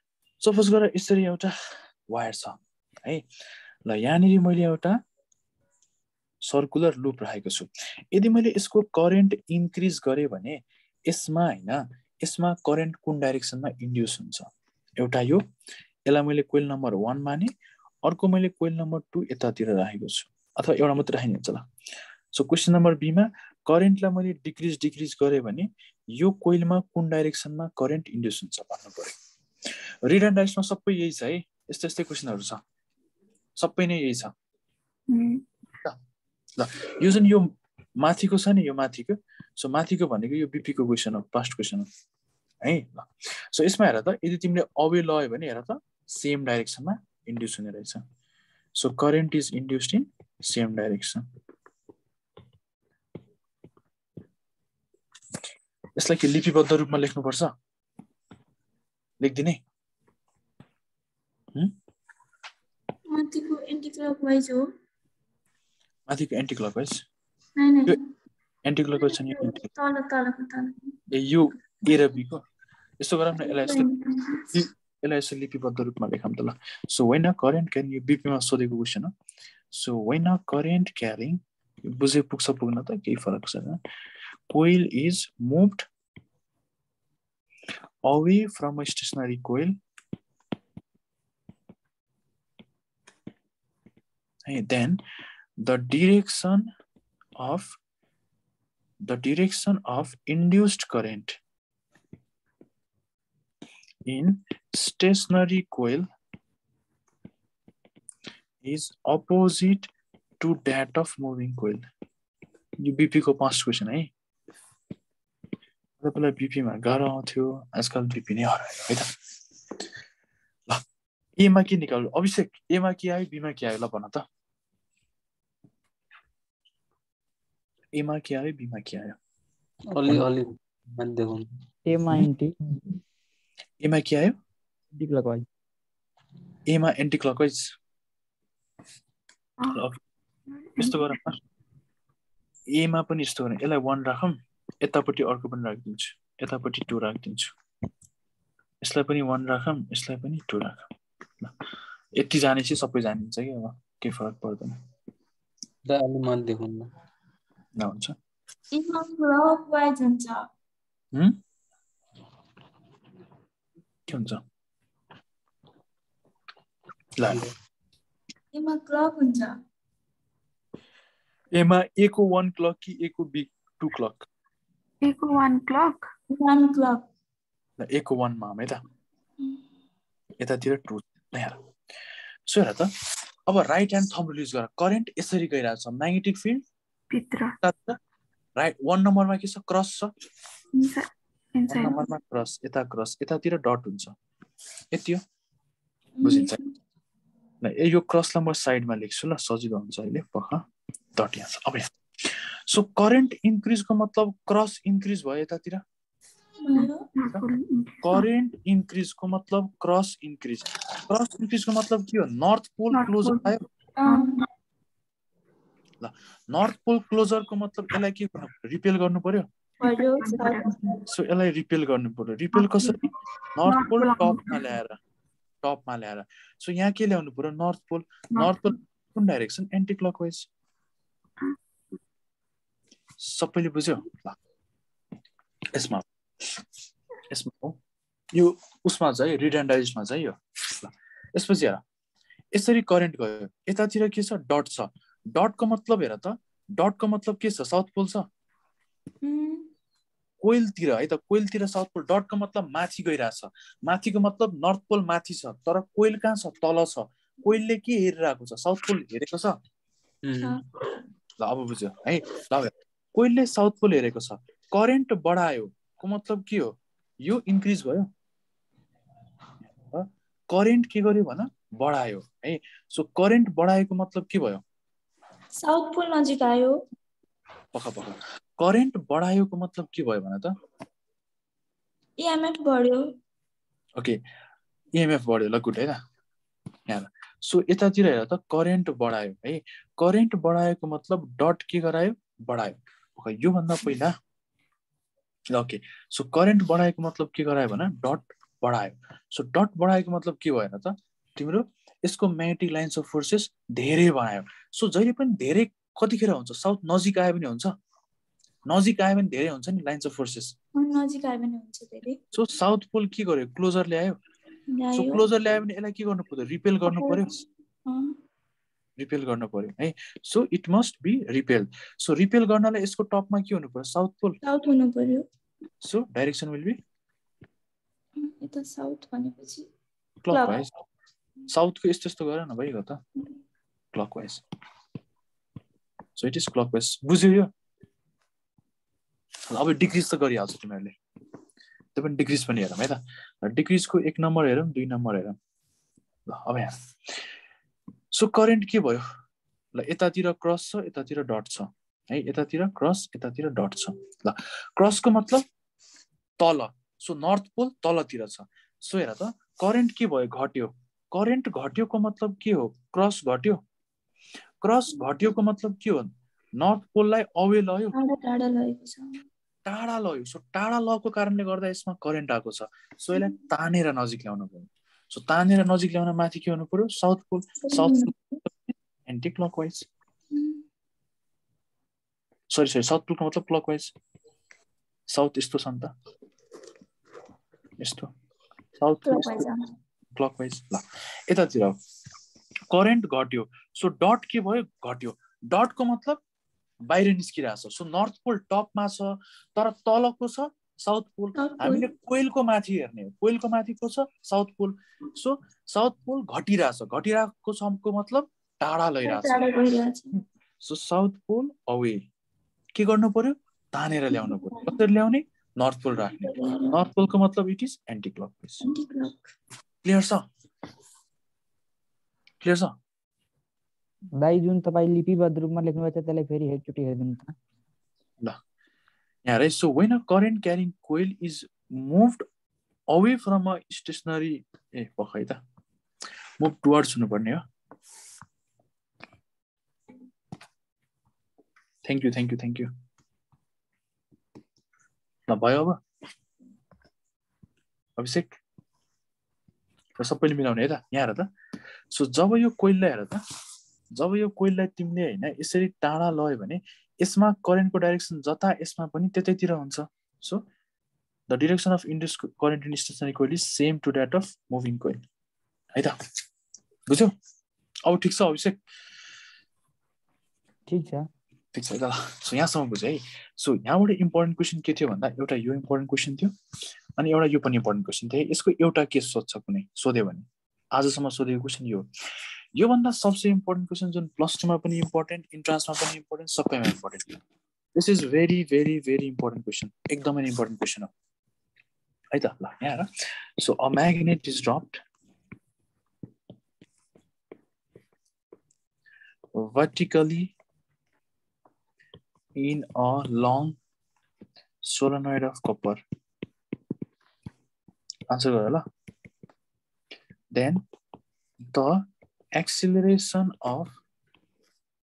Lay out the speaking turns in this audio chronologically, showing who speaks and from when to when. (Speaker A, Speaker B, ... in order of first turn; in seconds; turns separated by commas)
Speaker A: 0.4-1.5, Speaker A: 2.1-3.2, Speaker A: 3.9-5.0, Speaker A: 6.4-15.4, Speaker A: 16.1-17.5, Speaker A: 18.0-21.6, Speaker A: 22.3-29.1, Speaker A: 30.0-32.6, Speaker A: 33.6-34.3, Speaker B: 35.1-35.4, Speaker A: 36.6-41.9, Speaker A: 42.6-48.0, Speaker A: 48.8-51.2, Speaker A: 56.0-57.5, Speaker A: 59.2-59.6, Speaker C: 63.1-64.6, Speaker A: 66.1-67.0, Speaker C: 67.6-68.0, Speaker A: 68.6-69.7, Speaker C: 69.0-71.0, Speaker A: 71.1-72.4, Speaker A: 73.0-73.9, Speaker C: 73.4-74.5, Speaker A: 74.5-79.1, Speaker A: 79.7-83.8, Speaker A: 84.5-85.9, Speaker A: 88.0-89.7, Speaker A: 94.5-95.0, Speaker A: 95.6-96.7, Speaker A: 97.4-97.8, Speaker A: 99.0-101.4, Speaker A: 104.0-106.0, Speaker A: 108.6-109.9, Speaker A: 110.4-111.8, Speaker A: 112.8-114.1, Speaker A: 116.0-119.1, Speaker A: 121.4-124.2, Speaker A: 127.9-129.2, Speaker D: 129.9-131.5, Speaker E: 131.9-132.5, Speaker A: 133.8-134.3, Speaker E: 134.9-135.5, Speaker A: 136.7-137.7, Speaker A: 139.7-140.0, Speaker B: 140.5-141.2, Speaker A: 140.8-141.4, Speaker A: 142.7-147.5, Speaker A: 148.8-150.9, Speaker A: 152.2-154.8, Speaker D: 155.8-156.9, Speaker A: 157.8-158.2, Speaker C: 158.7-160.5, Speaker A: 164.1-164.4, Speaker A: 167.2-167.5, Speaker C: 168.5-169.6, Speaker A: 171.5-174.3, Speaker B: 175.0-176.1, Speaker C: 176.3-177.0, Speaker A: 177.8-178.8, Speaker A: 180.4-181.6, Speaker A: 182.5-182.9, Speaker A: 183.5-186.6, Speaker B: 187.1-187.6, Speaker A: 187.6-188.0, Speaker A: 188.6-190.1, Speaker B: 190.8-192.0, Speaker A: 191.7-194.2, Speaker A: 194.9-195.2, Speaker C: 196.2-196.6, Speaker A: 196.2-196.6, Speaker A: 197.6-201.9, Speaker A: 202.7-205.8, Speaker C: 206.6-207.1, Speaker B: 206.7-208.2, Speaker A: 208.0-213.7, Speaker B: 212.9-213.5, Speaker C: 214.0-214.4, Speaker B: 214.1-214.4, Speaker A: 216.0-219.5, Speaker C: 219.8-220.7, Speaker B: 219.9-221.0, Speaker A: 221.1-223.0, Speaker B: 222.5-223.1, Speaker A: 223.5-225.0, Speaker B: 223.6-224.6, Speaker A: 225.6-230.5, Speaker B: 228.3-228.7, Speaker A: 233.2-234.3, Speaker A: 235.7-236.0, Speaker A: 237.3-237.8, Speaker A: 238.3-241.8, Speaker A: 242.5-248.3, Speaker C: 249.2-249.7, Speaker A: 250.4-259.6, Speaker D: 260.2-260.6, Speaker C: 260.4-260.6, Speaker A: 261.4-268.1, Speaker A: 269.8-274.6, Speaker C: 275.6-276.8, Speaker A: 277.7-280.5, Speaker C: 282.2-283.1, Speaker A: 284.9-286.0, Speaker A: 286.9-294.1, Speaker A: 295.5-307.7, Speaker A: 308.7-310.5, Speaker C: 310.7-312.2, Speaker A: 312.3-314.2, Speaker C: 314.7-315.2, Speaker A: 314.9-317.4, Speaker C: 316.8-317.2, Speaker C: 317.9-318.2, Speaker A: 319.0-324.4, Speaker C: 324.4-325.2, Speaker A: 325.8-326.8, Speaker C: 328.2-329.7, Speaker A: 330.2-330.7, Speaker C: 330.3-330.6, Speaker A: 331.5-333.0, Speaker A: 333.9-334.4, Speaker A: 336.1-337.5, Speaker A: 339.5-340.9, Speaker A: 341.9-345.4, Speaker A: 346.3-347.2, Speaker A: 348.1-349.0, Speaker A: 349.8-355.4, Speaker A: 356.4-363.6, Speaker A: 364.6-367.9, Speaker C: 367.9-369.2, Speaker A: 369.6-379.9, Speaker C: 377.6-378.4, Speaker C: 380.3-380.6, Speaker A: 382.5-383.9, Speaker A: 385.1-385.9, Speaker A: 387.8-388.1, Speaker A: 388.8-389.5, Speaker C: 389.0-389.7, Speaker A: 390.1-391.8, Speaker A: 392.7-396.2, Speaker A: 396.8-409.4, Speaker C: 401.4-401.9, Speaker C: 409.0-410.1, Speaker A: 410.6-412.0, Speaker A: 412.7-418.6, Speaker C: 414.2-414.7, Speaker C: 416.1-416.8, Speaker C: 418.6-419.1, Speaker A: 419.8-420.3, Speaker A: 422.4-422.7, Speaker E: 424.1-427.3, Speaker A: 429.2-432.2, Speaker A: 432.9-435.4, Speaker A: 436.4-437.4, Speaker A: 441.8-442.7, Speaker A: 445.3-445.8, Speaker A: 448.0-448.3, Speaker A: 450.0-451.3, Speaker A: 451.9-453.2, Speaker A: 453.9-460.4, Speaker A: 461.3-465.0, Speaker A: 467.9-468.6, Speaker E: 470.7-471.1, Speaker A: 471.5-476.3, Speaker A: 477.0-481.9, Speaker A: 482.6-487.1, Speaker A: 487.8-490.9, Speaker A: 492.1-494.8, Speaker A: 499.3-500.3, Speaker A: 502.4-503.6, Speaker A: 504.6-505.8, Speaker A: 508.1-508.6, Speaker A: 510.3-510.6, Speaker A: 511.5-513.7